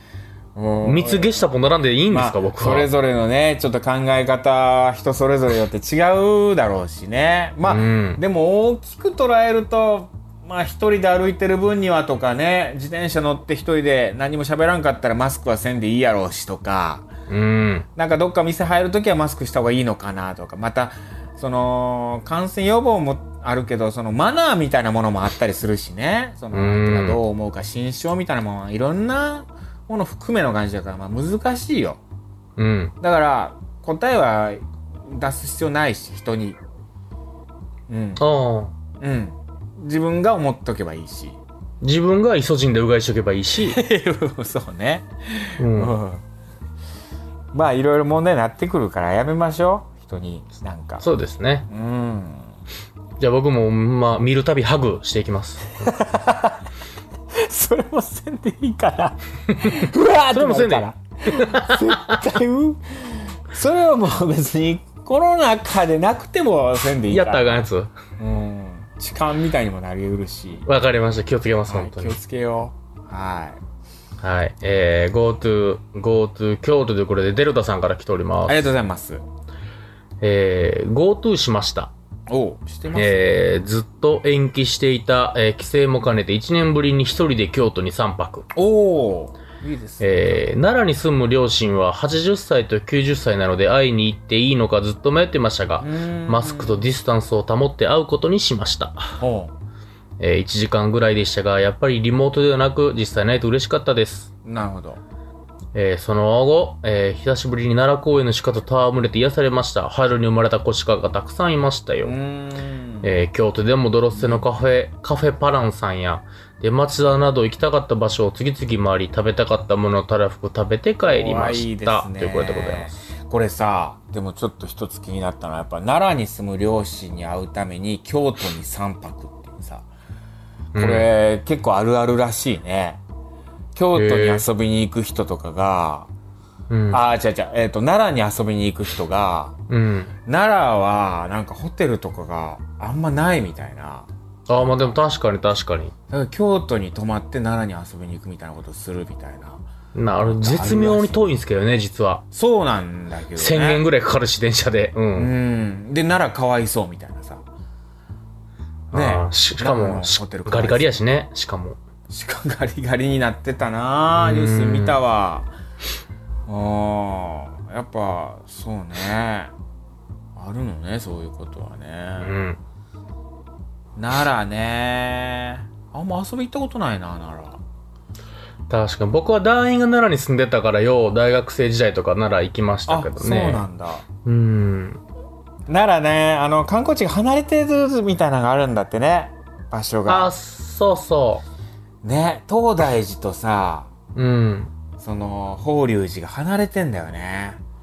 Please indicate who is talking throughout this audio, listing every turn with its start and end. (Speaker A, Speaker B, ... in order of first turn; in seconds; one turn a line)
Speaker A: 0.5-1.5
Speaker B: 0.8-2.9
Speaker A: 2.1-17.1
Speaker B: 7.6-8.2
Speaker B: 17.3-17.9
Speaker A: 17.9-32.0
Speaker B: 26.5-27.2
Speaker B: 32.6-32.9
Speaker A: 33.0-36.6
Speaker A: 37.9-38.2
Speaker B: 38.2-38.7
Speaker A: 39.0-41.4
Speaker B: 41.8-43.8
Speaker A: 43.6-46.2
Speaker B: 45.6-46.0
Speaker A: 47.5-51.0
Speaker B: 51.0-51.7
Speaker A: 51.7-52.5
Speaker B: 53.2-55.9
Speaker A: 55.8-56.6
Speaker A: 57.3-70.7
Speaker B: 60.3-62.2
Speaker B: 67.1-67.9
Speaker B: 70.7-72.2
Speaker A: 71.7-73.6
Speaker B: 74.2-78.7
Speaker A: 78.5-79.2
Speaker B: 80.2-81.9
Speaker A: 82.3-83.2
Speaker B: 82.9-88.5
Speaker A: 88.5-90.5
Speaker B: 90.0-99.2
Speaker A: 95.8-96.8
Speaker A: 99.2-99.5
Speaker B: 100.2-104.3
Speaker A: 104.4-105.0
Speaker B: 105.7-112.1
Speaker A: 112.0-113.2
Speaker B: 113.0-122.9
Speaker A: 114.1-114.5
Speaker A: 121.0-129.9
Speaker B: 130.7-131.1
Speaker A: 130.7-133.0
Speaker A: 133.7-136.1
Speaker B: 133.9-134.4
Speaker B: 136.7-137.0
Speaker A: 136.9-139.6
Speaker B: 139.7-140.1
Speaker A: 140.2-144.7
Speaker B: 144.5-145.9
Speaker A: 146.1-149.6
Speaker B: 149.9-152.2
Speaker A: 150.3-151.2
Speaker A: 152.3-153.8
Speaker B: 153.4-155.3
Speaker A: 155.1-157.4
Speaker A: 158.9-160.9
Speaker B: 158.9-161.8
Speaker A: 162.1-165.5
Speaker B: 164.1-165.0
Speaker A: 166.5-169.5
Speaker A: 170.3-172.3
Speaker B: 172.2-172.6
Speaker A: 173.9-177.6
Speaker B: 178.7-183.7
Speaker A: 182.9-184.0
Speaker B: 184.2-185.0
Speaker A: 185.7-190.3
Speaker B: 190.1-191.4
Speaker A: 192.0-193.9
Speaker B: 194.1-194.7
Speaker A: 195.0-197.6